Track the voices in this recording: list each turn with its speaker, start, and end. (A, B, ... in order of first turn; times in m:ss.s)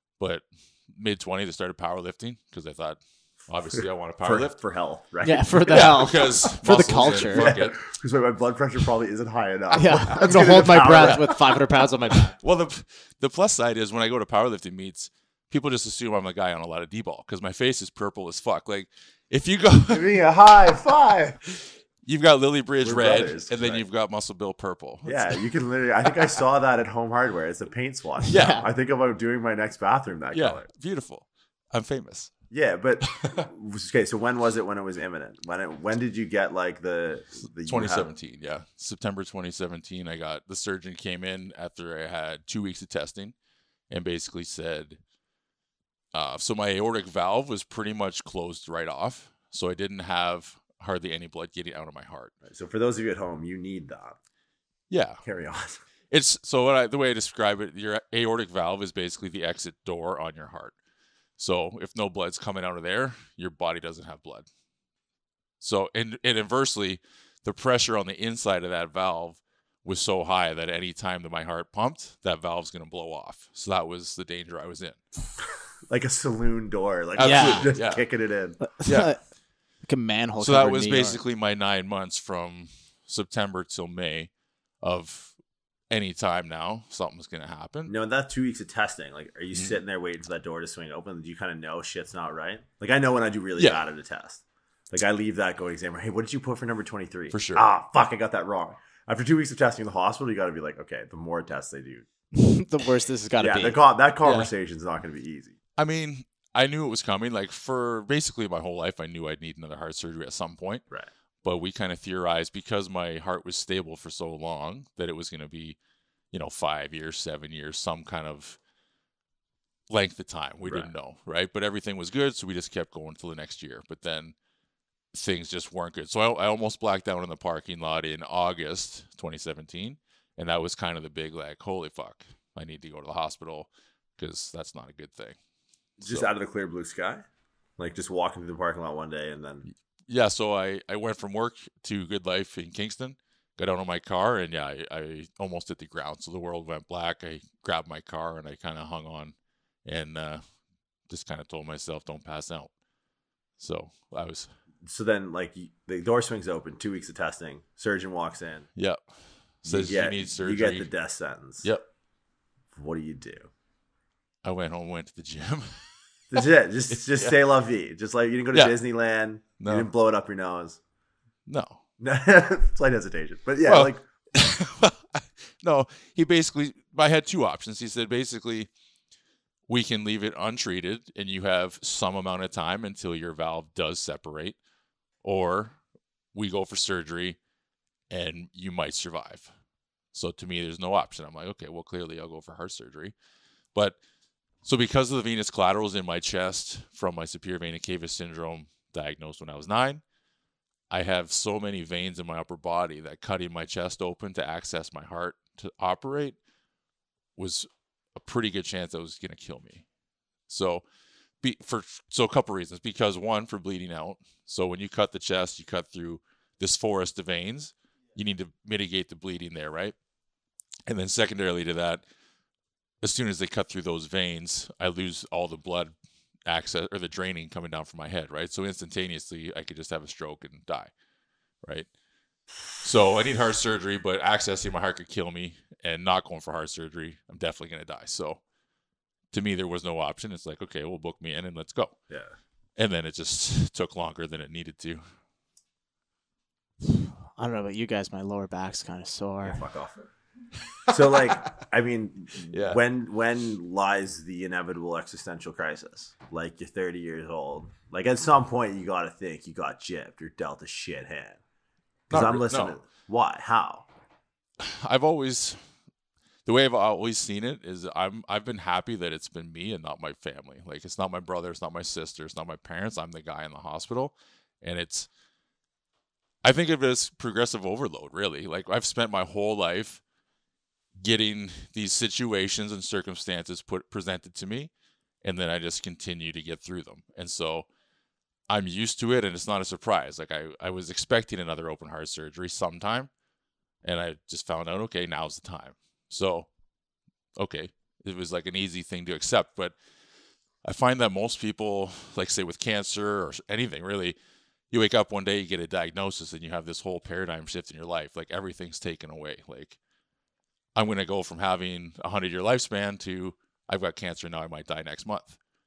0:00.2-0:04.6 A
0:03.7-0:11.6 B
0:05.2-0:07.5 C
0:05.7-0:07.8 A
0:09.7-0:12.3 C
0:10.9-0:11.2 A
0:12.4-0:20.2 A
0:19.9-0:21.4 B
0:21.5-0:25.5 A
0:22.8-0:23.8 B
0:25.0-0:30.7 B
0:28.3-0:28.6 A
0:28.3-0:28.7 C
0:30.3-0:32.3 A
0:32.5-0:38.1 B
0:33.1-0:33.4 A
0:37.7-0:43.3 A
0:43.9-0:45.0 A
0:46.1-0:52.3 A
0:52.4-0:54.2 B
0:54.9-0:55.2 A
0:55.2-0:55.8 B
0:56.1-1:00.8 A
1:01.4-1:04.5 A
1:05.6-1:15.0 A
1:15.9-1:18.6 B
1:17.2-1:18.0 A
1:17.2-1:17.7 C
1:18.6-1:19.2 C
1:18.8-1:19.1 A
1:19.9-1:21.2 C
1:20.4-1:24.3 A
1:24.8-1:25.4 A
1:25.9-1:27.9 A
1:27.9-1:42.1 B
1:37.3-1:37.7 A
1:42.3-1:43.8 C
1:43.4-1:45.6 B
1:44.2-1:44.5 A
1:45.8-1:50.8 A
1:51.4-1:55.8 A
1:56.3-1:58.6 A
1:59.9-2:04.4 A
2:00.6-2:00.9 B
2:05.1-2:15.4 A
2:16.0-2:17.3 B
2:16.0-2:16.3 A
2:17.8-2:19.7 B
2:20.1-2:30.4 A
2:31.1-2:32.7 A
2:33.6-2:34.5 A
2:34.8-2:38.7 B
2:38.8-2:39.1 A
2:39.6-2:40.9 A
2:39.6-2:41.7 B
2:42.7-2:43.5 B
2:44.4-2:47.4 A
2:46.3-2:50.8 B
2:49.6-2:49.9 A
2:51.5-2:51.8 A
2:52.0-2:54.0 B
2:53.6-2:58.7 A
2:59.7-3:04.6 A
3:05.2-3:05.8 A
3:06.3-3:07.4 A
3:08.1-3:09.5 A
3:10.1-3:13.1 A
3:14.6-3:20.0 A
3:20.9-3:26.4 A
3:27.4-3:29.8 A
3:30.5-3:30.8 A
3:31.4-3:40.0 A
3:40.9-3:42.0 A
3:43.0-3:45.9 A
3:46.5-3:50.9 A
3:51.6-3:51.9 A
3:52.8-3:58.4 A
3:59.3-4:02.0 A
4:02.1-4:02.4 B
4:02.8-4:05.1 A
4:06.8-4:09.6 C
4:09.4-4:10.0 B
4:10.9-4:21.4 B
4:12.5-4:12.8 A
4:22.1-4:23.9 B
4:22.1-4:22.8 A
4:24.6-4:25.6 A
4:26.5-4:35.1 A
4:36.4-4:40.0 A
4:41.0-4:44.7 A
4:45.2-4:47.7 A
4:48.5-4:53.1 A
4:53.8-4:56.5 A
4:57.4-4:59.8 A
5:00.6-5:04.2 A
5:04.7-5:09.8 A
5:10.8-5:15.4 A